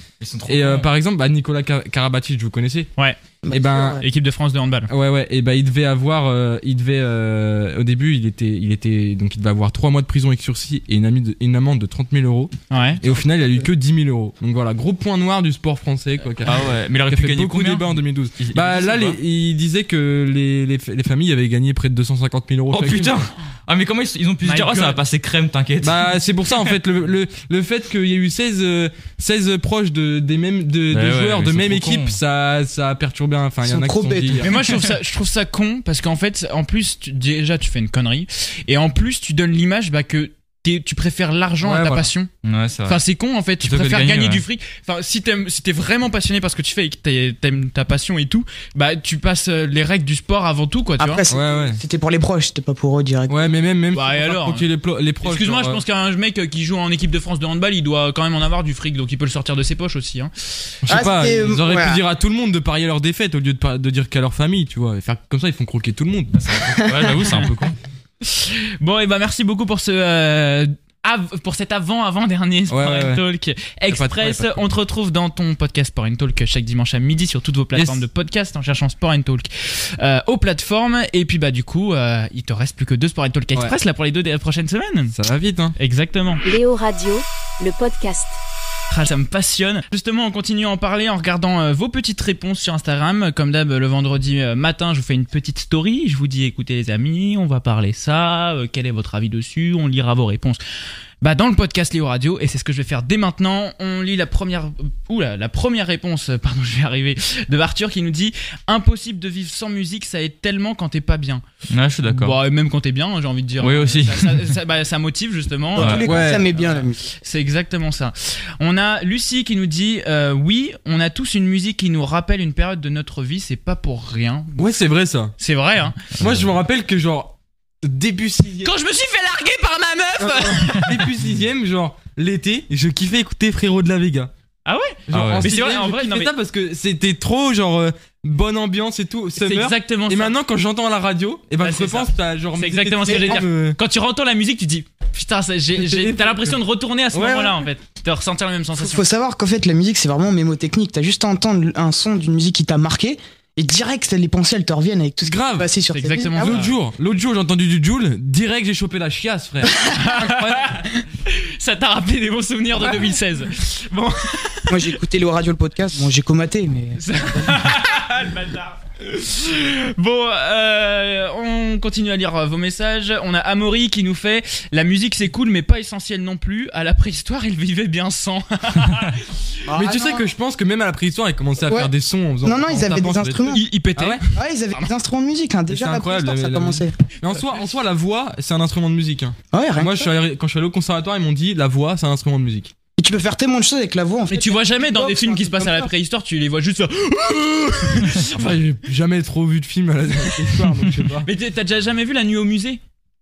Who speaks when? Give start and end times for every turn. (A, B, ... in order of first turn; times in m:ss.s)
0:00.2-0:00.9 A
0:00.4-0:02.9 B
0:03.4-0:04.0 C
0:03.5-0:04.0 B
0:04.0-0:04.9 D
0:04.9-0:23.2 B
0:12.7-0:13.0 D
0:13.1-0:13.6 C
0:16.4-0:17.9 A
0:18.4-0:19.2 A
0:22.7-0:26.1 A
0:24.4-0:25.0 D
0:25.8-0:34.5 B
0:30.9-0:32.2 A
0:33.6-0:34.6 C
0:34.4-0:42.3 D
0:41.6-0:42.1 B
0:42.4-0:43.0 A
0:42.9-0:51.2 D
0:43.6-0:44.4 A
0:51.0-0:53.4 C
0:51.3-0:51.8 B
0:53.3-0:55.8 B
0:53.9-0:54.7 D
0:55.2-1:00.7 D
1:00.8-1:07.5 B
1:00.9-1:02.0 C
1:06.4-1:07.8 A
1:06.8-1:07.2 C
1:08.2-1:25.1 D
1:12.7-1:13.2 B
1:13.9-1:14.6 B
1:17.8-1:18.0 B
1:25.1-1:25.8 B
1:25.8-1:26.4 D
1:26.4-1:28.4 E
1:28.9-1:40.6 D
1:41.2-1:51.4 D
1:51.7-1:52.4 A
1:52.0-2:04.8 D
1:53.6-1:54.5 A
1:55.8-1:57.0 C
1:55.8-1:56.1 A
1:55.9-1:56.5 B
2:04.6-2:05.4 B
2:05.4-2:06.1 D
2:06.2-2:06.5 A
2:06.2-2:08.7 B
2:08.6-2:11.0 D
2:10.2-2:14.3 B
2:14.6-2:16.3 D
2:15.1-2:23.8 B
2:15.1-2:15.5 A
2:19.4-2:20.3 D
2:21.6-2:29.0 D
2:23.1-2:23.4 C
2:25.8-2:26.6 B
2:27.1-2:27.6 B
2:28.8-2:36.6 C
2:35.2-2:35.7 B
2:35.9-2:36.7 D
2:36.3-2:40.8 B
2:39.9-2:45.0 D
2:44.7-2:47.6 C
2:47.0-2:59.6 D
2:59.6-3:00.3 C
2:59.7-3:04.2 B
3:02.4-3:03.6 C
3:03.4-3:04.9 D
3:04.3-3:06.9 C
3:05.7-3:12.7 B
3:09.5-3:10.1 C
3:13.0-3:15.9 C
3:14.3-3:18.4 D
3:18.3-3:21.3 B
3:21.2-3:22.8 D